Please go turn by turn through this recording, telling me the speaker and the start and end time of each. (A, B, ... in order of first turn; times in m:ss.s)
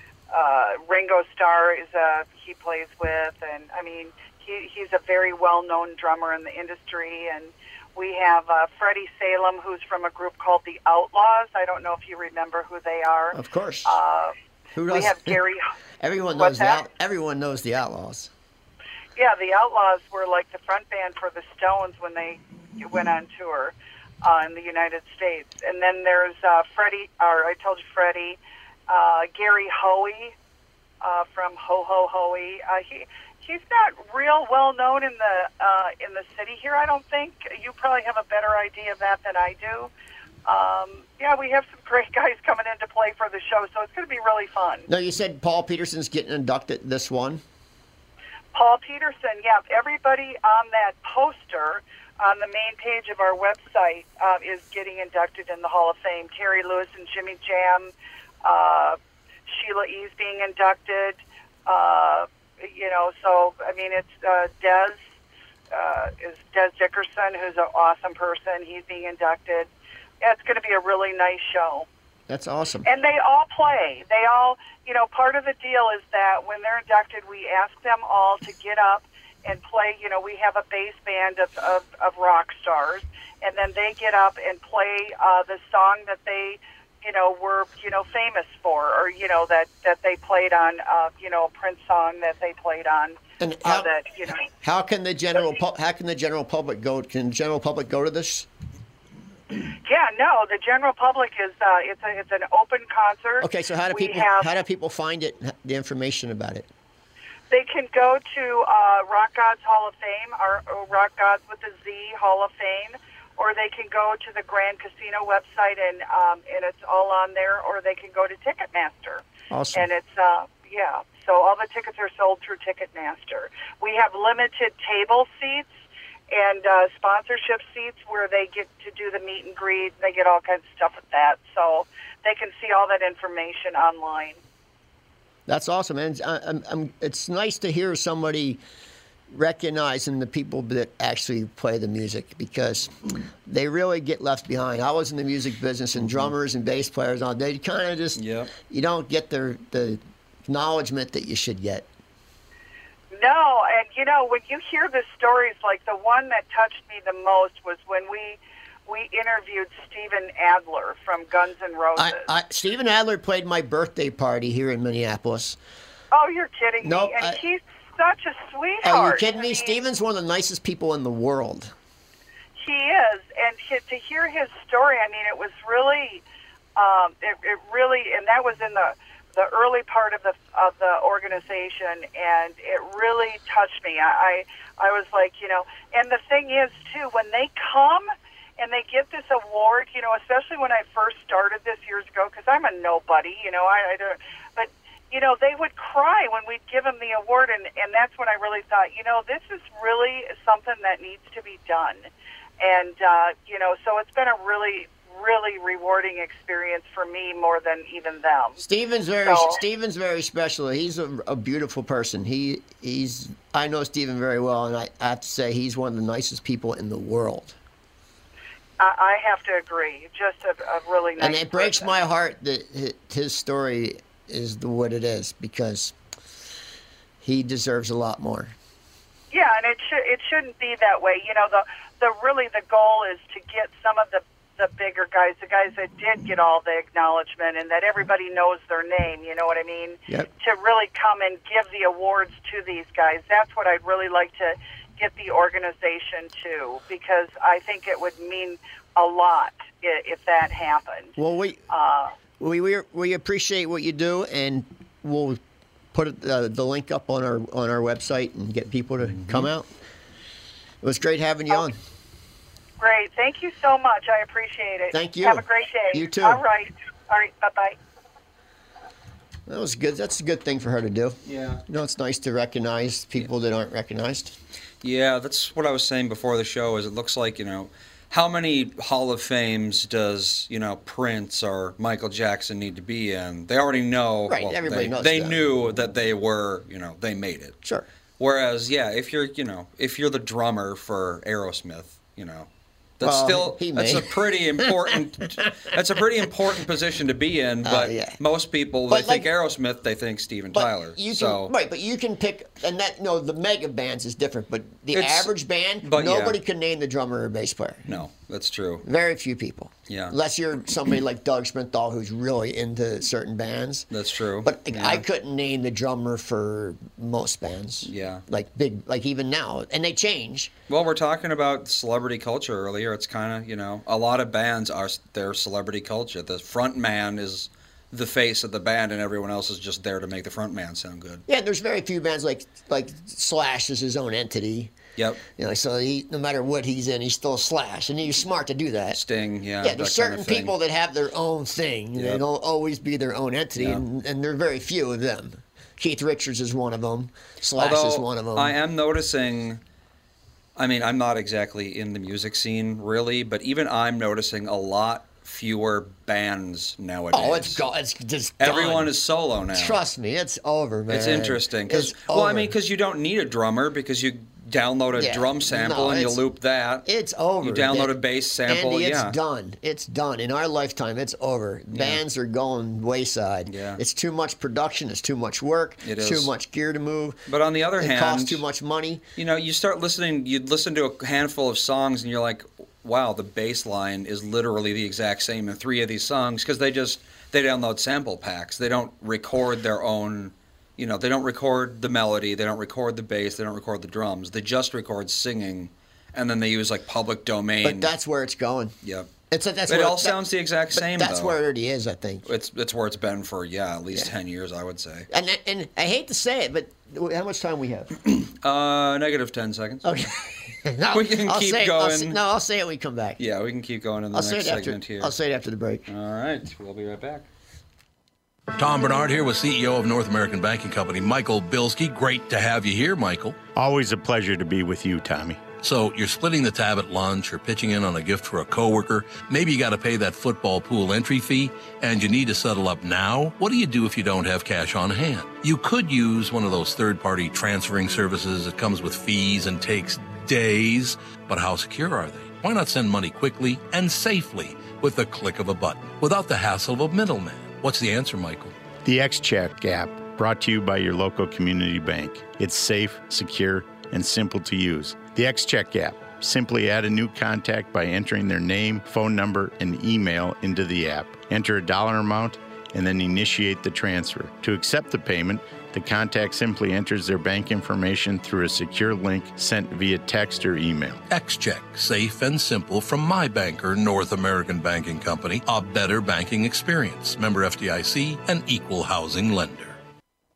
0:00.3-0:14.3 A
0:13.3-0:14.0 B
0:14.7-0:15.4 B
0:14.9-0:15.7 A
0:16.0-0:18.3 B
0:16.4-0:16.8 A
0:19.2-0:30.3 A
0:31.0-0:39.9 A
0:40.4-0:44.9 A
0:44.9-0:47.4 B
0:48.5-0:57.9 A
0:58.4-1:05.0 A
1:05.7-1:09.7 A
1:10.2-1:11.9 A
1:12.3-1:12.9 B
1:12.8-1:34.4 A
1:33.4-1:33.9 B
1:34.5-1:38.5 B
1:39.8-1:44.5 A
1:43.4-1:46.7 B
1:47.5-2:05.7 A
1:59.5-1:59.9 B
2:06.3-2:14.4 A
2:15.5-2:18.6 B
2:19.3-2:31.9 B
2:26.0-2:26.3 C
2:28.2-2:28.5 C
2:33.1-2:42.3 A
2:42.0-2:45.6 B
2:46.1-2:49.8 A
2:46.8-2:47.4 B
2:48.8-2:51.7 B
2:52.6-2:56.2 A
2:56.8-3:08.1 A
3:08.6-3:22.1 A
3:22.6-3:28.6 A
3:28.6-3:37.6 B
3:29.2-3:29.6 A
3:38.8-3:42.0 A
3:41.2-3:45.9 B
3:47.2-3:48.5 B
3:49.3-4:11.2 A
4:11.2-4:11.6 B
4:11.7-4:12.1 A
4:12.4-4:15.4 B
4:15.9-4:19.7 B
4:19.1-4:19.5 C
4:20.8-4:21.8 B
4:22.8-4:27.8 A
4:24.9-4:26.4 B
4:29.5-4:34.3 B
4:31.3-4:31.6 C
4:34.8-4:47.6 C
4:44.3-4:45.5 B
4:48.2-5:01.5 C
4:53.0-4:54.7 B
4:57.6-4:58.2 B
4:58.9-4:59.3 B
5:00.5-5:08.0 B
5:04.9-5:05.3 C
5:05.8-5:06.4 C
5:07.9-5:08.8 C
5:08.8-5:13.9 B
5:09.9-5:10.1 C
5:13.9-5:15.0 C
5:14.4-5:20.5 B
5:17.8-5:18.2 C
5:20.7-5:31.2 C
5:31.3-5:34.7 B
5:35.0-5:35.2 C
5:35.3-5:39.0 B
5:38.9-5:40.5 C
5:39.6-5:48.6 B
5:42.0-5:42.2 C
5:47.6-5:49.6 C
5:50.6-5:57.6 C
5:57.1-5:59.0 B
5:58.4-5:59.8 C
5:59.5-6:02.5 B
6:00.9-6:06.9 C
6:04.9-6:06.2 B
6:06.8-6:19.0 B
6:07.4-6:09.1 C
6:11.7-6:12.0 C
6:13.5-6:13.8 C
6:15.8-6:16.3 C
6:17.3-6:18.4 C
6:19.2-6:37.9 C
6:37.6-6:38.7 B
6:38.8-6:39.1 C
6:39.3-6:42.3 B
6:39.7-6:41.4 C
6:42.2-6:45.1 C
6:45.1-6:47.9 B
6:48.1-6:49.8 C
6:49.8-6:53.2 B
6:50.9-6:52.2 C
6:53.2-6:55.1 C
6:54.1-6:55.9 B
6:55.9-6:57.3 C
6:58.6-7:03.4 D
7:03.5-7:05.4 E
7:05.6-7:28.5 D
7:28.8-7:51.0 E
7:51.1-7:59.8 D